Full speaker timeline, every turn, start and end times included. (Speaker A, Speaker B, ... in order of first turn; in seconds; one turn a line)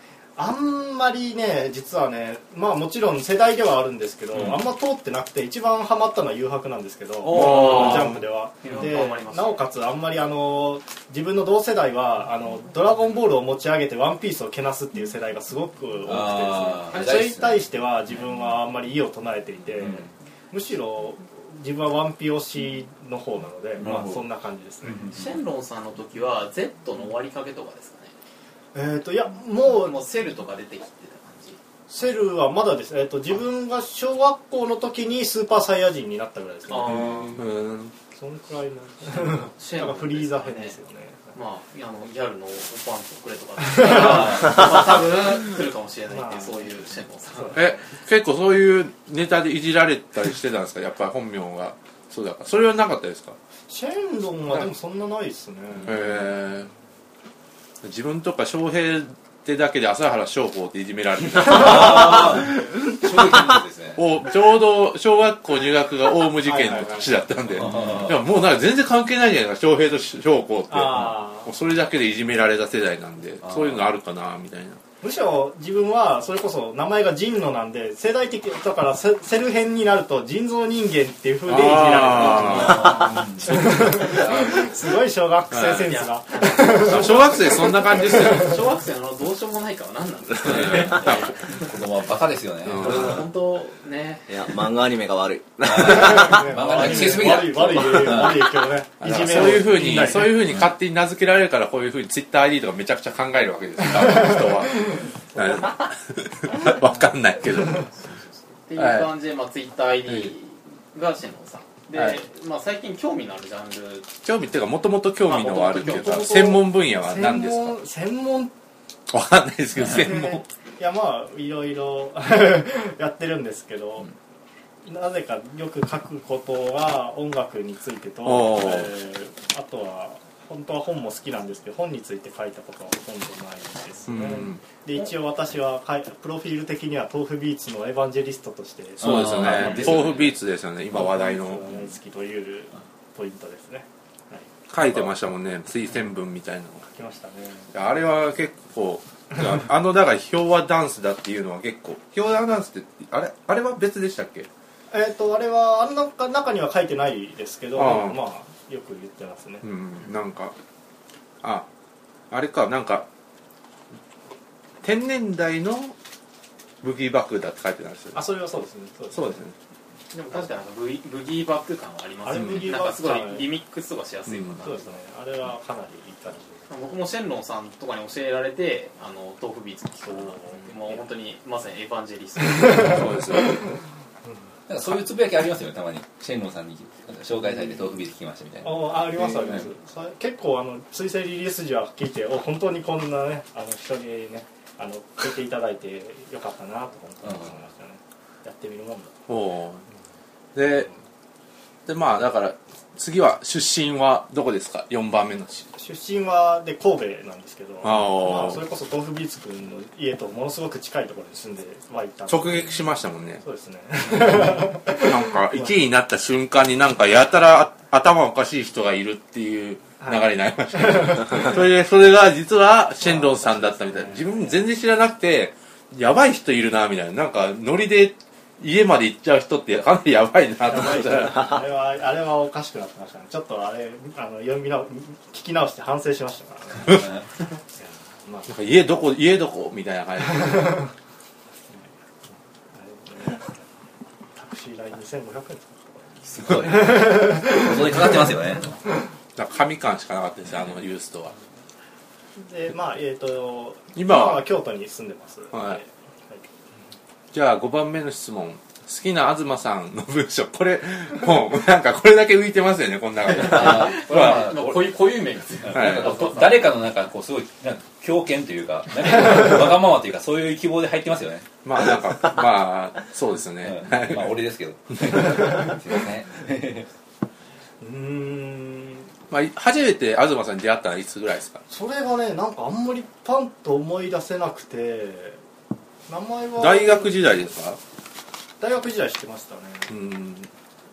Speaker A: 0.3-25.1
Speaker B: 7.3-8.0
Speaker C: 7.3-8.1
Speaker D: 8.6-9.6
Speaker B: 16.1-17.6
Speaker B: 23.8-24.2
Speaker B: 24.9-25.2
Speaker D: 25.1-28.1
Speaker A: 28.7-30.0
Speaker D: 29.7-31.6
Speaker A: 31.9-37.4
Speaker D: 36.7-37.4
Speaker C: 37.4-37.9
Speaker A: 38.1-41.3
Speaker D: 39.0-40.8
Speaker D: 41.3-47.7
Speaker B: 44.1-44.5
Speaker A: 46.1-47.6
Speaker C: 47.5-53.4
Speaker A: 53.7-56.1
Speaker C: 55.8-56.7
Speaker C: 57.8-62.4
Speaker B: 61.5-64.0
Speaker C: 64.0-74.8
Speaker A: 66.4-67.3
Speaker B: 67.7-68.0
Speaker A: 70.7-71.5
Speaker B: 73.4-73.8
Speaker A: 75.0-88.5
Speaker C: 81.5-83.0
Speaker B: 82.3-84.7
Speaker C: 85.5-85.9
Speaker D: 85.8-91.7
Speaker C: 86.8-88.6
Speaker C: 90.4-91.3
Speaker B: 90.5-93.2
Speaker C: 92.6-93.2
Speaker D: 92.8-94.6
Speaker E: 94.3-96.5
Speaker B: 95.6-98.5
Speaker A: 95.8-100.4
Speaker C: 99.0-107.9
Speaker D: 107.9-114.1
Speaker C: 108.8-109.1
Speaker C: 110.0-110.3
Speaker C: 114.2-117.8
Speaker D: 115.2-116.2
Speaker A: 115.8-118.5
Speaker C: 119.1-120.4
Speaker A: 119.8-124.1
Speaker A: 124.8-140.3
Speaker C: 128.2-128.9
Speaker C: 134.1-134.6
Speaker C: 139.0-141.7
Speaker B: 139.0-140.2
Speaker A: 140.9-145.1
Speaker C: 144.7-146.8
Speaker A: 146.8-147.7
Speaker C: 147.7-154.5
Speaker A: 154.9-159.6
Speaker C: 157.7-158.2
Speaker C: 159.6-160.5
Speaker C: 161.4-161.7
Speaker C: 162.3-163.1
Speaker C: 164.8-165.9
Speaker C: 166.8-168.2
Speaker A: 168.1-169.4
Speaker C: 169.1-169.5
Speaker D: 170.1-174.9
Speaker A: 172.2-173.5
Speaker C: 174.3-174.6
Speaker A: 174.6-176.7
Speaker D: 176.7-182.8
Speaker A: 180.0-181.1
Speaker C: 182.7-183.6
Speaker A: 182.7-183.5
Speaker B: 184.7-189.6
Speaker A: 188.6-199.1
Speaker C: 199.3-199.8
Speaker C: 200.5-200.9
Speaker C: 201.8-205.7
Speaker A: 205.7-212.8
Speaker C: 207.8-208.6
Speaker C: 212.3-213.4
Speaker A: 213.4-215.8
Speaker C: 214.2-231.6
Speaker A: 220.0-221.5
Speaker A: 223.0-224.6
Speaker A: 230.7-238.6
Speaker C: 238.5-240.8
Speaker A: 241.7-241.9
Speaker A: 242.7-243.6
Speaker A: 244.3-246.0
Speaker B: 246.2-248.8
Speaker A: 246.6-248.1
Speaker C: 249.3-251.3
Speaker A: 252.3-256.4
Speaker C: 253.9-254.4
Speaker C: 255.5-255.8
Speaker C: 257.3-264.2
Speaker D: 263.3-266.7
Speaker B: 263.3-265.0
Speaker B: 265.6-271.5
Speaker C: 265.7-266.1
Speaker C: 271.6-274.3
Speaker B: 273.6-276.9
Speaker A: 277.8-279.1
Speaker C: 279.3-281.6
Speaker A: 281.7-285.4
Speaker A: 286.1-287.6
Speaker C: 286.6-287.8
Speaker A: 288.6-289.9
Speaker C: 289.9-290.5